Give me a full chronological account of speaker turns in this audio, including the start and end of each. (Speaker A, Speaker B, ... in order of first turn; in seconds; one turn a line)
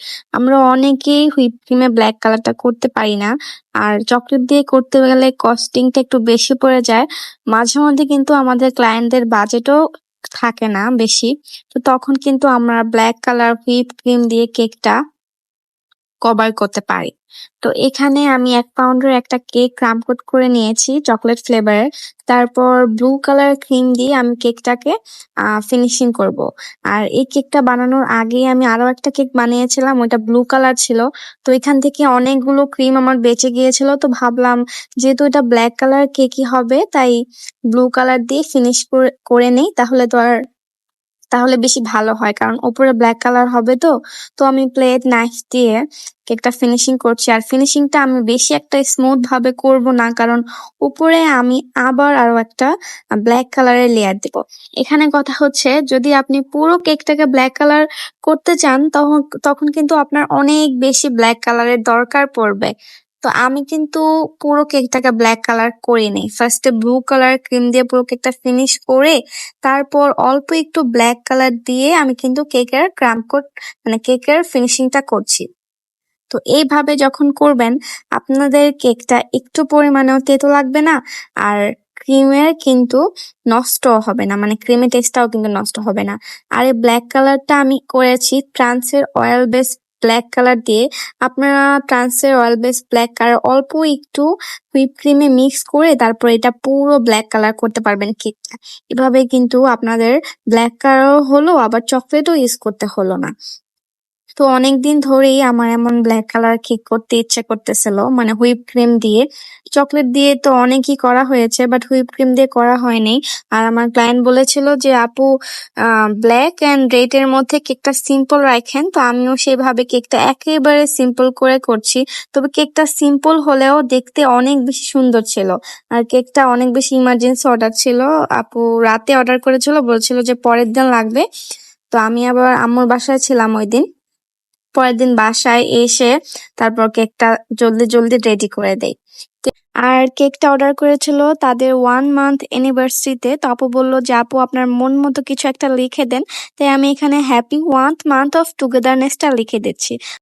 Speaker A: 0.4-3.3
Speaker A: 3.8-9.8
Speaker A: 10.4-14.9
Speaker A: 16.2-17.1
Speaker A: 17.6-24.9
Speaker A: 25.6-37.1
Speaker A: 37.7-40.3
Speaker A: 41.3-45.8
Speaker A: 46.3-52.7
Speaker A: 53.2-62.7
Speaker A: 63.2-75.5
Speaker A: 76.3-83.0
Speaker A: 83.5-103.3
Speaker A: 104.4-109.2
Speaker A: 109.8-115.3
Speaker A: 116.2-131.2
Speaker A: 131.9-133.8
Speaker A: 134.8-149.9